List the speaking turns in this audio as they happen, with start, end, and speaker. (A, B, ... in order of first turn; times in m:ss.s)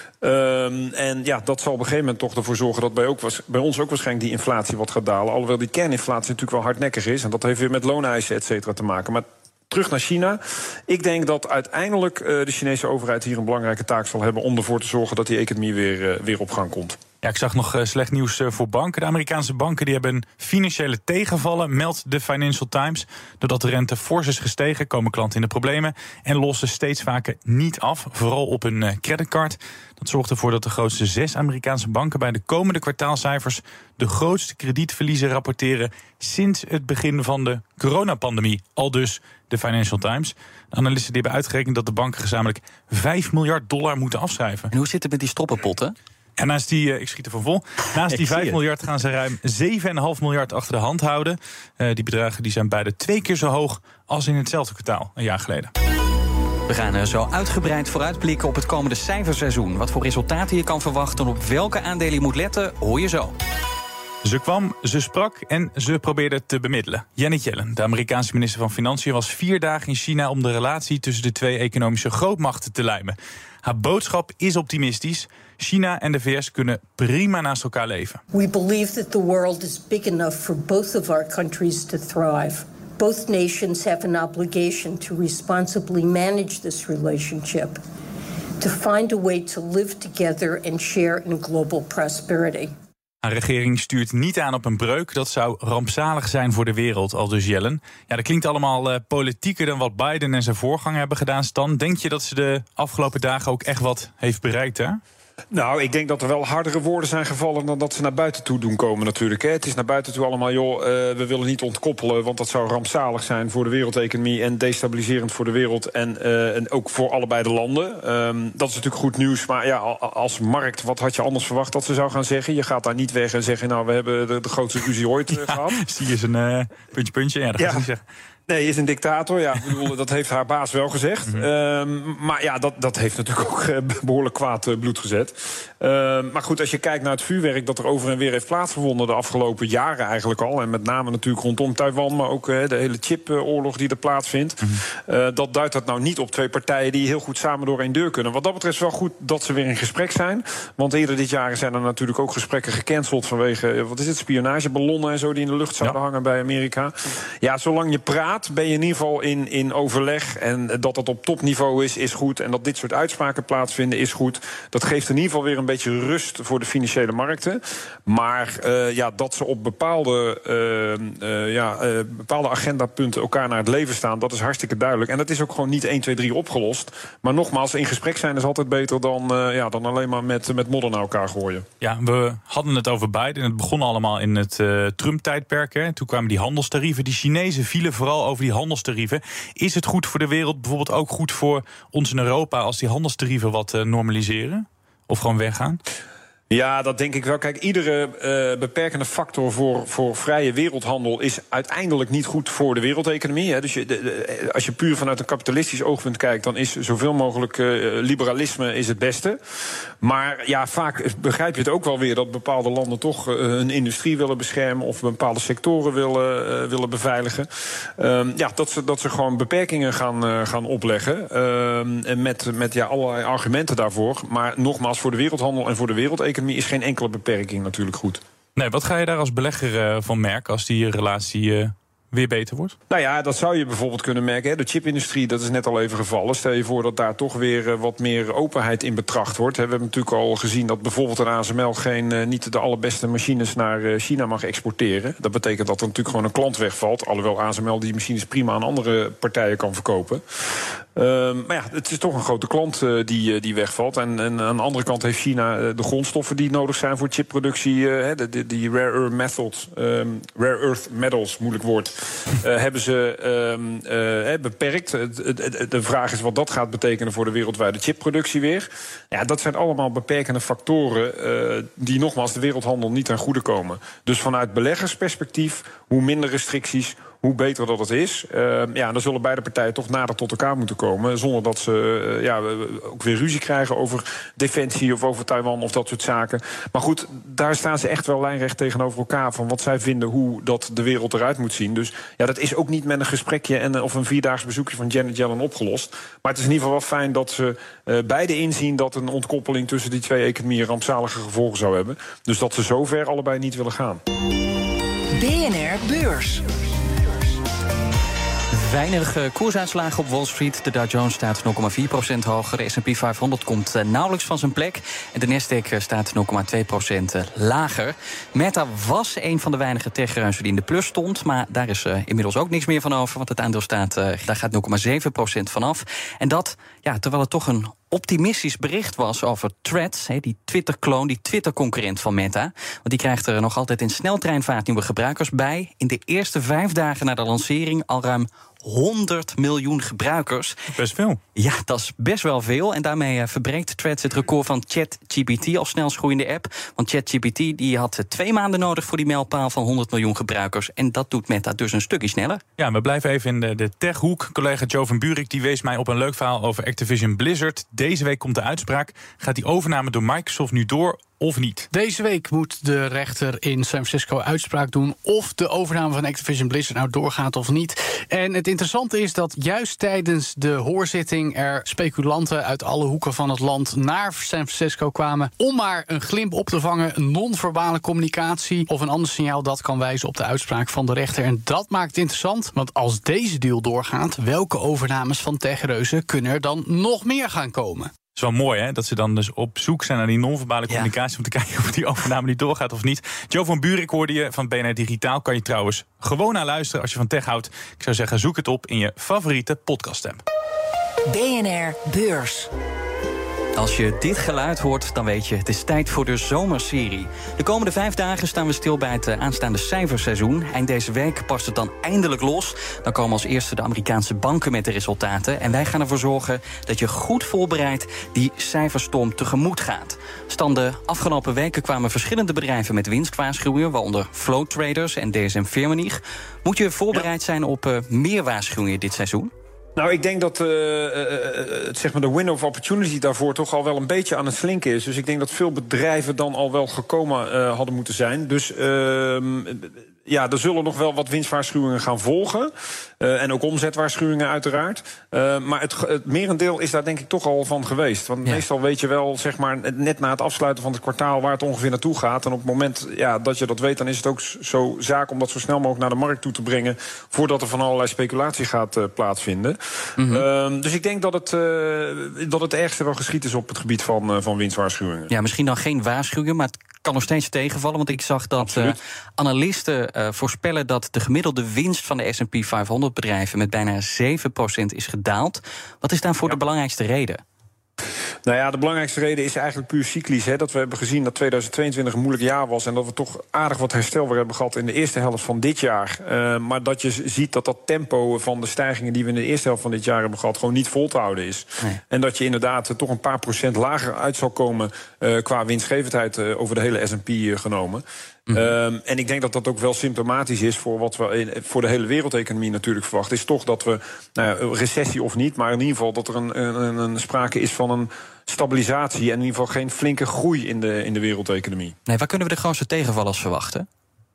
0:00.2-0:17.0 A
0:17.2-0:44.7 B
0:44.7-0:46.0 C
0:46.4-0:55.7 B
0:48.1-0:48.5 C
0:56.7-1:03.3 C
1:04.2-1:18.2 B
1:18.3-1:27.8 D
1:28.6-1:32.7 D
1:33.2-1:45.0 B
1:45.5-2:05.8 A
2:05.3-2:08.0 B
2:07.6-2:07.8 A
2:08.5-3:01.6 A
3:01.8-3:15.8 B
3:16.5-3:29.4 A
3:30.0-3:48.2 A
3:48.6-3:52.8 B
3:52.9-4:10.2 A
4:11.0-5:04.0 A
5:05.2-5:07.0 E
5:08.5-5:40.6 C
5:40.7-5:41.2 B
5:41.4-5:52.4 C
5:52.6-6:01.7 B
6:01.7-6:27.9 F
6:28.2-6:40.2 B
6:41.1-6:42.5 E
6:43.6-7:09.3 C
7:09.8-7:45.1 A
7:40.0-7:40.2 C
7:45.1-7:57.2 C
7:48.4-7:48.8 A
7:58.3-8:31.8 A
8:31.9-8:33.7 C